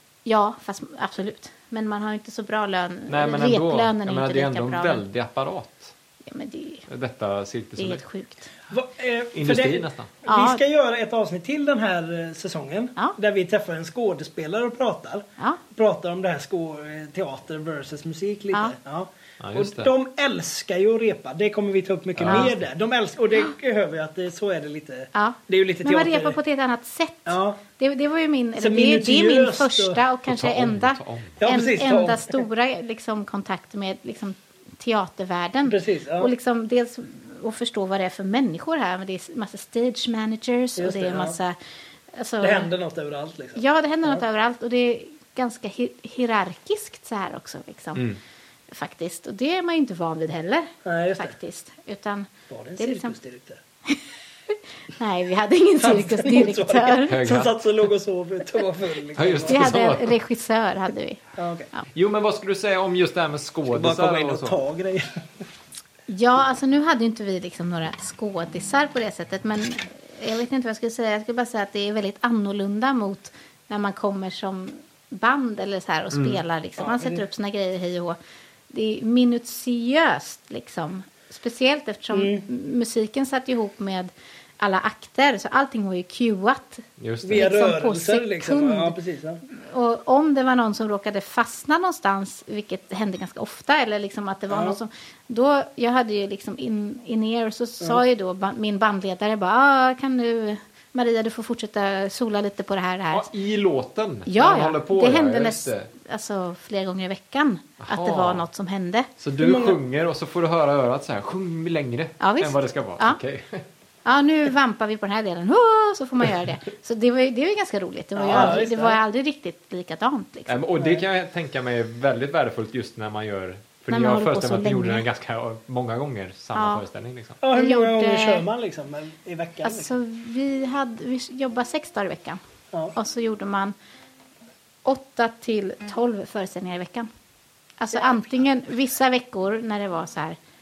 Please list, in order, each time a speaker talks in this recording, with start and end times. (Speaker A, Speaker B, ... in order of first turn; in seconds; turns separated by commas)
Speaker A: 0.2-5.0, Speaker B: 3.1-5.9, Speaker A: 6.2-6.8, Speaker B: 6.9-8.0, Speaker A: 7.8-8.5, Speaker C: 8.7-26.4, Speaker B: 9.3-10.1, Speaker A: 10.2-10.6, Speaker B: 19.4-19.9, Speaker B: 22.2-22.6, Speaker A: 25.1-41.5, Speaker C: 27.3-27.6, Speaker C: 28.6-30.0, Speaker B: 30.3-31.4, Speaker C: 31.4-32.4, Speaker C: 35.6-36.3, Speaker C: 40.8-41.4, Speaker A: 42.1-42.7, Speaker C: 42.4-44.2, Speaker A: 43.5-48.1, Speaker A: 48.7-53.1, Speaker C: 50.8-51.3, Speaker C: 52.5-53.6, Speaker A: 53.9-57.4, Speaker C: 55.8-59.7, Speaker B: 57.1-57.6, Speaker B: 59.1-60.1, Speaker A: 59.5-61.2, Speaker C: 61.4-61.7, Speaker B: 61.9-64.6, Speaker C: 63.7-65.2, Speaker A: 66.1-78.2, Speaker B: 76.1-76.4, Speaker C: 76.8-77.2, Speaker A: 78.7-89.0, Speaker C: 82.1-82.4, Speaker B: 87.0-87.5, Speaker C: 87.2-89.4, Speaker A: 89.5-103.3, Speaker C: 94.5-94.8, Speaker B: 103.1-105.9, Speaker A: 104.2-109.1, Speaker B: 107.8-108.5, Speaker B: 109.2-113.6, Speaker C: 109.4-109.8, Speaker A: 112.2-113.2, Speaker A: 114.0-120.5, Speaker C: 118.2-119.0, Speaker B: 118.3-118.6, Speaker B: 120.5-127.4, Speaker C: 120.8-121.0, Speaker A: 123.9-125.0, Speaker A: 126.5-126.8, Speaker C: 127.4-129.9, Speaker A: 127.5-128.4, Speaker A: 129.6-132.4, Speaker A: 132.9-133.7, Speaker A: 134.8-137.1, Speaker A: 137.8-140.4